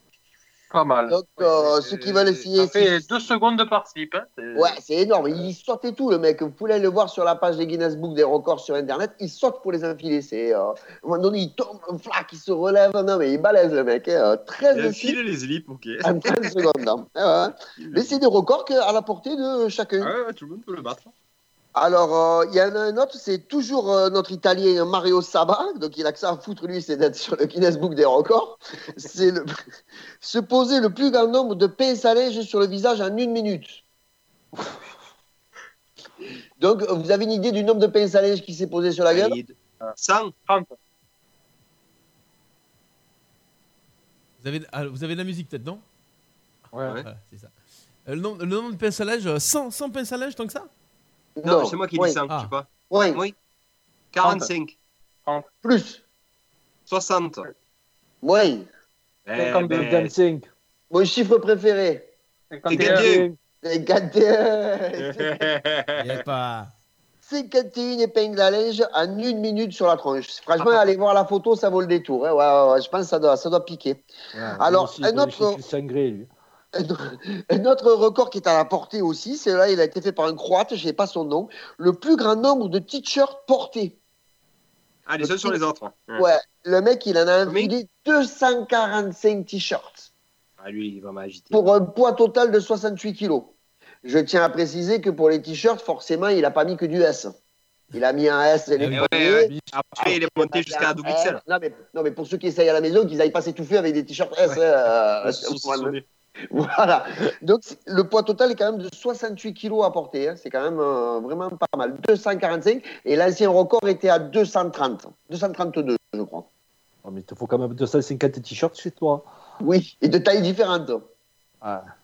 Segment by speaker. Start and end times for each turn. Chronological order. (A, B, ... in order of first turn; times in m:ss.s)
0:00.7-0:04.8 A
0:01.1-0:03.0 B
0:04.5-0:15.2 B
0:14.7-0:16.6 C
0:16.0-0:20.1 B
0:17.8-0:18.2 C
0:20.0-0:21.1 C
0:21.7-0:29.5 B
0:30.2-0:33.8 B
0:36.6-0:39.4 B
0:39.1-0:40.3 C
0:40.5-0:40.7 A
0:44.4-0:45.8 D
0:46.7-0:47.0 A
0:47.0-0:47.5 D
0:48.0-0:50.7 D
0:51.4-0:52.2 B
0:51.4-0:53.3 C
0:52.9-0:53.2 B
0:54.1-0:54.7 C
0:54.2-0:54.5 A
0:55.6-0:56.0 B
0:56.9-0:57.4 C
0:58.2-0:58.7 B
0:59.3-1:00.1 C
0:59.4-1:00.0 A
0:59.7-1:00.5 E
1:00.9-1:02.1 B
1:02.5-1:03.1 A
1:02.7-1:03.3 C
1:02.7-1:03.4 E
1:03.6-1:05.5 B
1:05.0-1:06.2 C
1:06.0-1:06.7 D
1:07.2-1:14.0 B
1:14.3-1:16.3 E
1:14.6-1:15.6 B
1:16.7-1:24.0 B
1:25.0-1:26.2 C
1:25.2-1:25.6 B
1:26.2-1:30.1 B
1:27.4-1:27.7 C
1:30.6-1:31.6 C
1:31.5-1:37.3 B
1:37.9-1:46.0 B
1:38.8-1:39.5 D
1:38.9-1:41.4 C
1:45.2-1:46.0 C
1:46.5-1:56.4 B
1:57.0-1:59.2 E
1:59.6-2:01.0 B